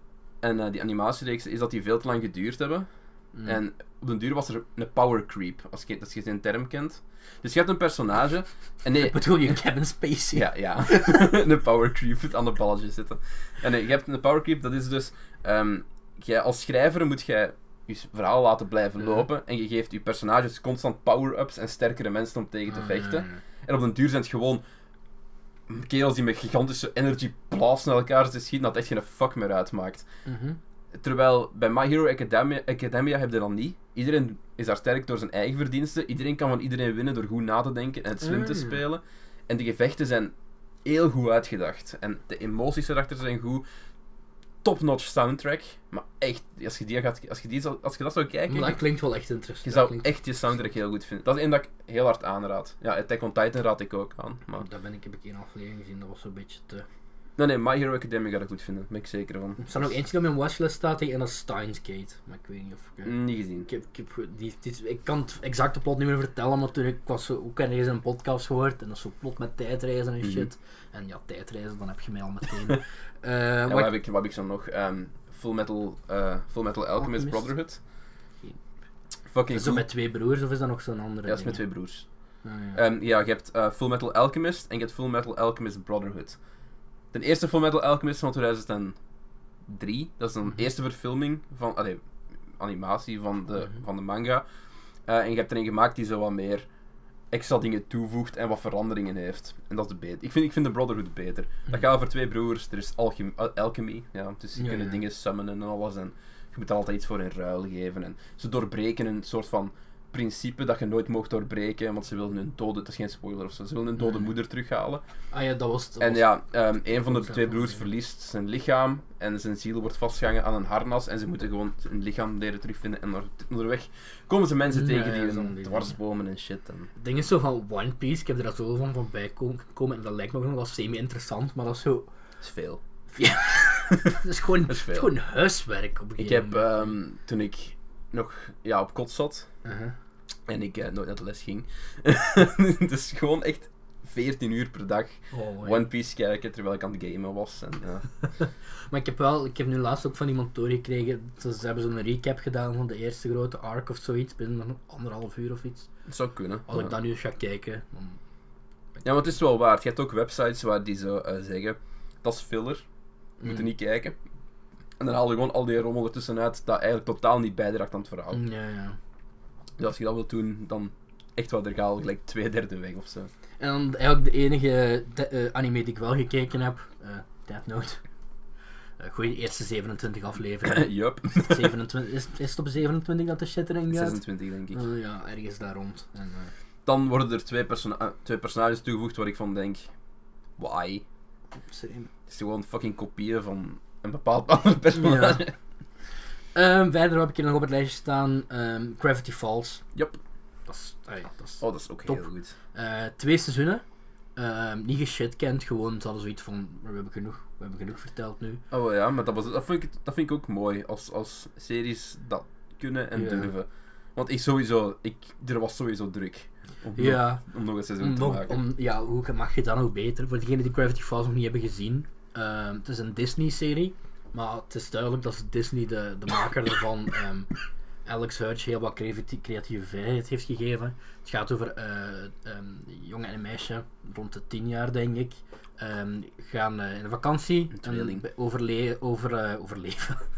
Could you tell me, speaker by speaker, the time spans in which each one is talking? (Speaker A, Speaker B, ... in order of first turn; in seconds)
Speaker A: 0.4-2.9, 3.4-9.2, 10.3-24.6, 25.7-30.1, 30.9-43.6, 44.6-48.8, 49.6-54.6, 57.4-59.9, 63.0-63.7, 70.2-70.5, 73.7-77.8, 79.3-79.9, 81.2-82.0, 82.7-86.4, 87.1-89.0, 89.7-92.0, 92.6-94.5, 95.1-96.7, 97.3-115.0, 116.0-126.9, 132.4-132.8, 133.9-135.1, 136.2-139.5, 140.5-148.1, 156.1-156.9, 159.0-162.8, 163.4-164.2, 165.0-168.4, 169.8-173.3, 180.6-181.7, 183.9-184.8, 186.8-189.9, 190.6-191.0, 192.3-195.5, 201.6-202.5, 208.7-218.6, 237.7-238.2
Speaker B: 3.3-3.6, 9.0-11.3, 22.7-23.4, 30.2-30.6, 38.2-38.8, 48.5-50.1, 54.6-56.9, 59.6-73.9, 77.0-77.5, 79.5-81.6, 82.4-82.8, 104.6-105.0, 114.0-114.3, 115.3-116.3, 116.9-117.9, 124.7-126.0, 127.0-132.1, 133.1-136.9, 139.6-139.9, 145.3-145.8, 148.9-155.9, 156.7-158.2, 163.4-163.7, 168.3-169.0, 173.6-178.0, 179.0-184.2, 184.7-186.5, 191.7-192.1, 194.9-195.4, 196.5-199.8, 200.7-203.8, 204.3-208.6, 213.1-213.5, 216.9-217.4, 218.0-227.5, 228.1-240.2